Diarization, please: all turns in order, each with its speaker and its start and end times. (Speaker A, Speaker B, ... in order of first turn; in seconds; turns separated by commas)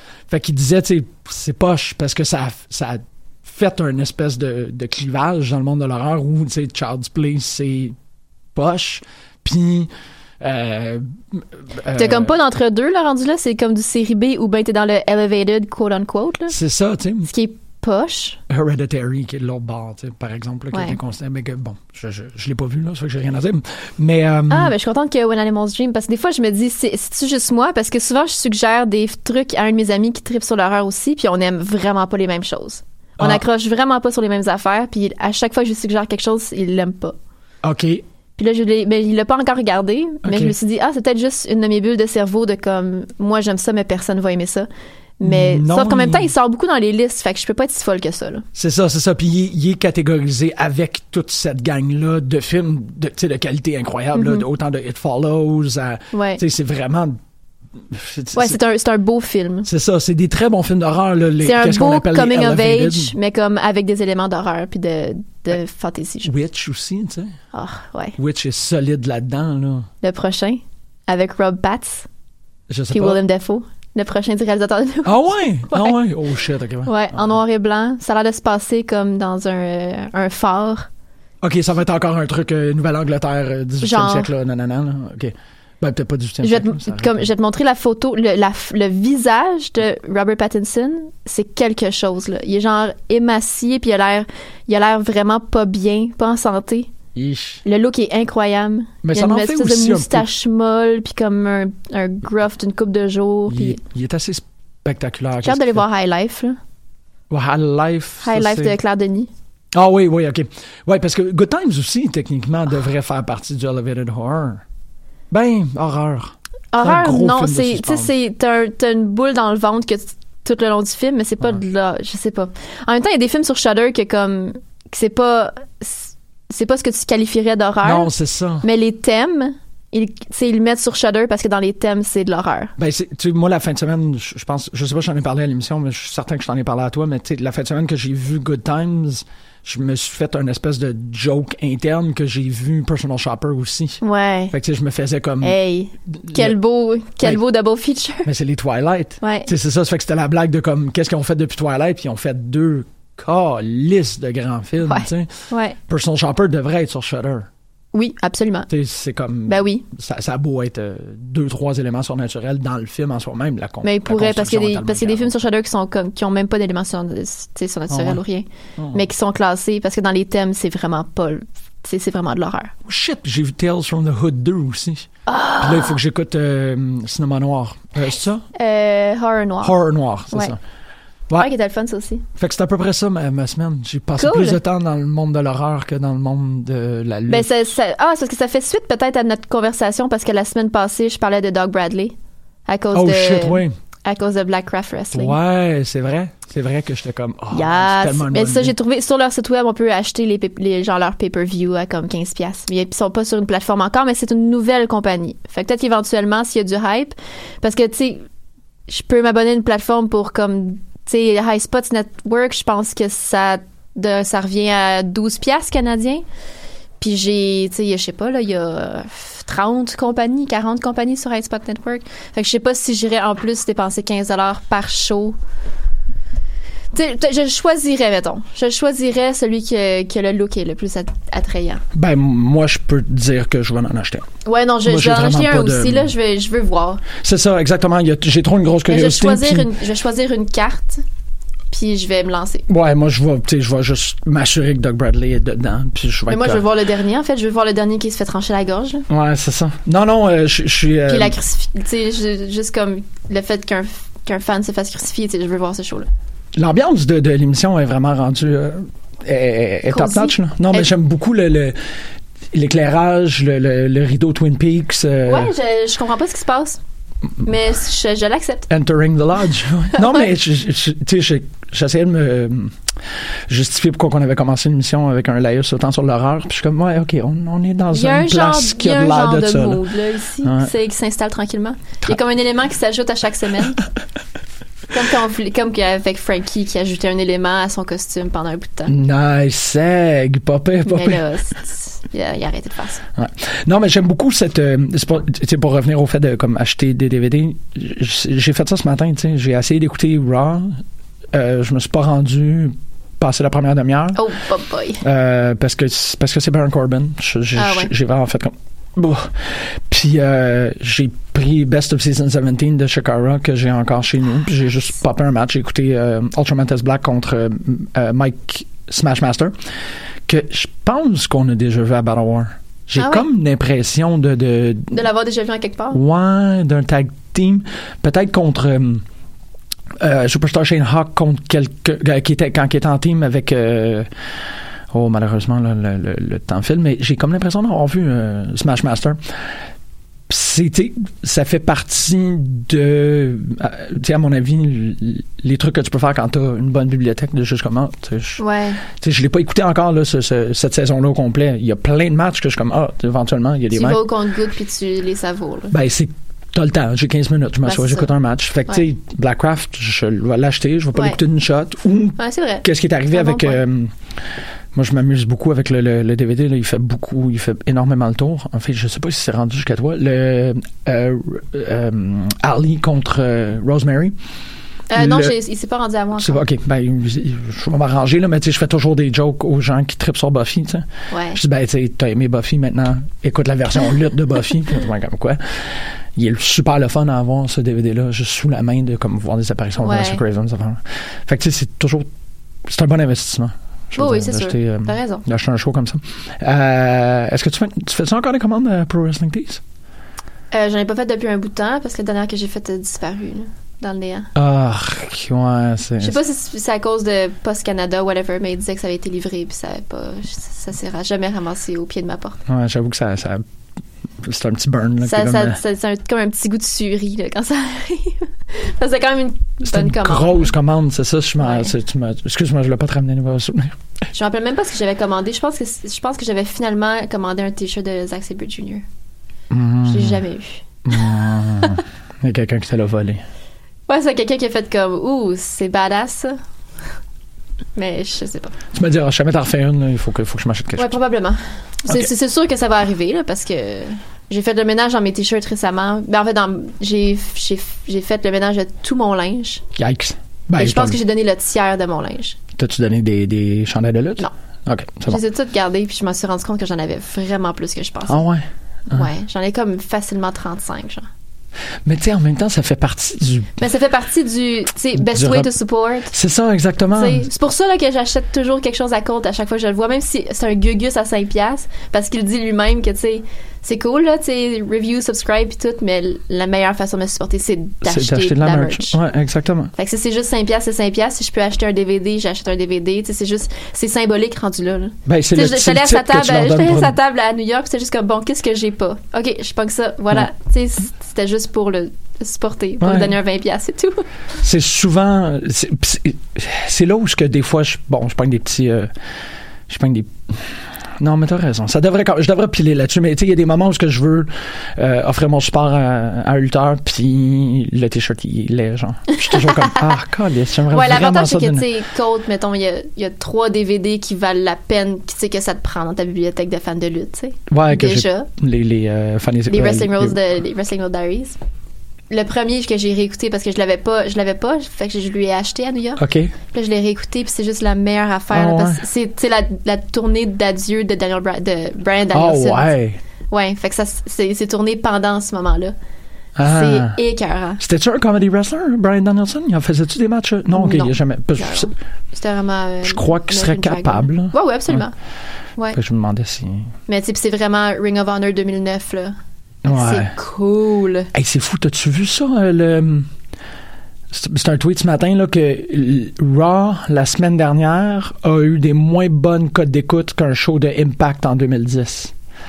Speaker A: 0.3-8.0, Speaker A: 8.5-12.3, Speaker B: 11.9-16.5, Speaker A: 16.5-17.3, Speaker B: 17.3-18.4, Speaker A: 18.5-24.7, Speaker B: 20.7-21.0, Speaker B: 24.5-37.1, Speaker A: 37.6-38.0, Speaker B: 38.4-44.7, Speaker A: 40.2-40.5, Speaker B: 45.2-48.5, Speaker A: 45.2-46.3, Speaker A: 48.5-57.2, Speaker B: 54.1-54.5, Speaker B: 56.1-56.4, Speaker A: 57.9-58.6, Speaker B: 58.3-59.7, Speaker A: 59.6-63.1, Speaker B: 61.4-66.3, Speaker A: 66.2-67.3, Speaker B: 67.5-68.2, Speaker A: 68.2-69.9, Speaker B: 70.0-72.1, Speaker A: 72.7-73.2, Speaker B: 72.9-75.1, Speaker A: 75.0-77.3, Speaker B: 75.7-76.0, Speaker B: 76.8-80.9, Speaker A: 81.4-87.3, Speaker B: 83.8-84.3, Speaker B: 86.4-96.9, Speaker A: 97.1-97.6, Speaker B: 97.6-103.8, Speaker A: 99.0-100.3, Speaker A: 103.5-105.8, Speaker B: 105.4-106.6, Speaker A: 107.3-108.8, Speaker B: 108.2-109.3, Speaker A: 109.7-114.6, Speaker A: 115.3-118.1, Speaker B: 116.7-128.1, Speaker A: 127.8-128.7, Speaker B: 128.6-132.7, Speaker A: 132.8-144.0, Speaker B: 144.0-144.5, Speaker A: 144.5-146.6, Speaker B: 145.4-148.3, Speaker A: 148.2-155.3, Speaker B: 149.2-149.5, Speaker B: 154.8-155.8, Speaker A: 155.9-157.5, Speaker B: 157.9-158.7, Speaker A: 158.7-165.3, Speaker B: 159.5-159.8, Speaker B: 163.8-172.7, Speaker A: 167.9-168.2, Speaker A: 168.8-169.0, Speaker A: 172.8-175.1, Speaker B: 175.3-176.0, Speaker A: 175.6-178.4, Speaker B: 178.5-179.7, Speaker A: 179.6-180.6, Speaker B: 181.4-182.2, Speaker A: 182.4-187.5, Speaker B: 184.2-184.6, Speaker B: 187.3-192.2, Speaker B: 192.7-195.3, Speaker A: 192.9-193.7, Speaker A: 195.1-198.8, Speaker B: 197.5-208.2, Speaker B: 208.9-216.2, Speaker B: 217.0-225.4, Speaker B: 226.9-231.8, Speaker A: 231.9-234.3, Speaker B: 234.4-237.0, Speaker A: 234.8-236.1, Speaker A: 237.2-239.7, Speaker B: 238.9-241.0, Speaker B: 241.7-242.7, Speaker A: 242.7-246.6, Speaker B: 246.3-249.0, Speaker A: 249.1-251.3, Speaker B: 251.1-256.1, Speaker A: 256.5-261.8, Speaker B: 259.9-260.9, Speaker A: 262.5-265.5, Speaker B: 265.2-266.8, Speaker B: 267.4-268.7, Speaker A: 268.7-272.8, Speaker B: 269.9-270.2, Speaker A: 273.5-279.8, Speaker B: 277.9-283.8, Speaker A: 280.4-280.7, Speaker B: 284.9-288.9, Speaker A: 288.9-291.2, Speaker B: 290.8-293.0, Speaker A: 293.1-300.8, Speaker A: 301.3-304.2, Speaker B: 304.1-305.0, Speaker A: 305.0-319.5, Speaker B: 307.6-307.9, Speaker A: 320.3-325.0, Speaker B: 323.0-323.2, Speaker B: 324.9-326.0, Speaker A: 325.9-329.0, Speaker A: 330.0-334.1, Speaker A: 334.9-339.2, Speaker A: 340.3-354.0, Speaker B: 348.4-348.8, Speaker B: 353.7-355.7, Speaker A: 355.7-363.9, Speaker B: 357.6-358.1, Speaker B: 360.9-361.2, Speaker B: 362.2-363.6, Speaker A: 364.7-374.1, Speaker B: 374.9-376.4, Speaker A: 374.9-375.3, Speaker A: 376.2-392.1, Speaker B: 381.1-381.4, Speaker B: 389.8-390.2, Speaker A: 392.6-399.6, Speaker B: 393.9-395.2, Speaker B: 400.5-404.3, Speaker A: 404.3-406.2, Speaker B: 406.0-412.4, Speaker A: 412.5-413.4, Speaker A: 414.2-415.6, Speaker B: 415.0-420.5, Speaker A: 419.6-423.8, Speaker B: 421.4-421.7, Speaker B: 424.1-428.8, Speaker A: 429.5-430.2, Speaker B: 429.9-430.6, Speaker A: 430.8-433.2, Speaker B: 433.9-436.4, Speaker B: 437.8-438.5, Speaker A: 438.7-441.0, Speaker B: 440.8-449.6, Speaker A: 449.8-451.0, Speaker B: 450.6-452.4, Speaker A: 452.6-455.2, Speaker B: 455.1-458.2, Speaker A: 458.1-459.1, Speaker B: 458.9-461.1, Speaker A: 461.8-463.6, Speaker B: 463.6-466.1, Speaker A: 464.9-465.5, Speaker A: 466.1-467.3, Speaker B: 466.9-479.0, Speaker A: 477.8-479.7, Speaker B: 479.8-494.0, Speaker A: 485.1-487.0, Speaker A: 492.8-493.2, Speaker A: 494.4-498.9, Speaker A: 499.7-511.7, Speaker B: 509.2-509.9, Speaker B: 510.7-518.3, Speaker A: 517.5-520.2, Speaker B: 519.5-521.4, Speaker B: 522.1-532.7, Speaker A: 526.0-526.3, Speaker A: 528.3-528.8, Speaker A: 532.1-533.0, Speaker B: 533.3-535.7, Speaker A: 536.4-537.0, Speaker B: 536.4-537.6, Speaker A: 537.6-541.7, Speaker B: 540.5-544.9, Speaker A: 542.8-544.8, Speaker A: 545.7-546.7, Speaker B: 546.9-551.1, Speaker A: 549.6-550.1, Speaker A: 551.1-553.1, Speaker A: 554.1-562.1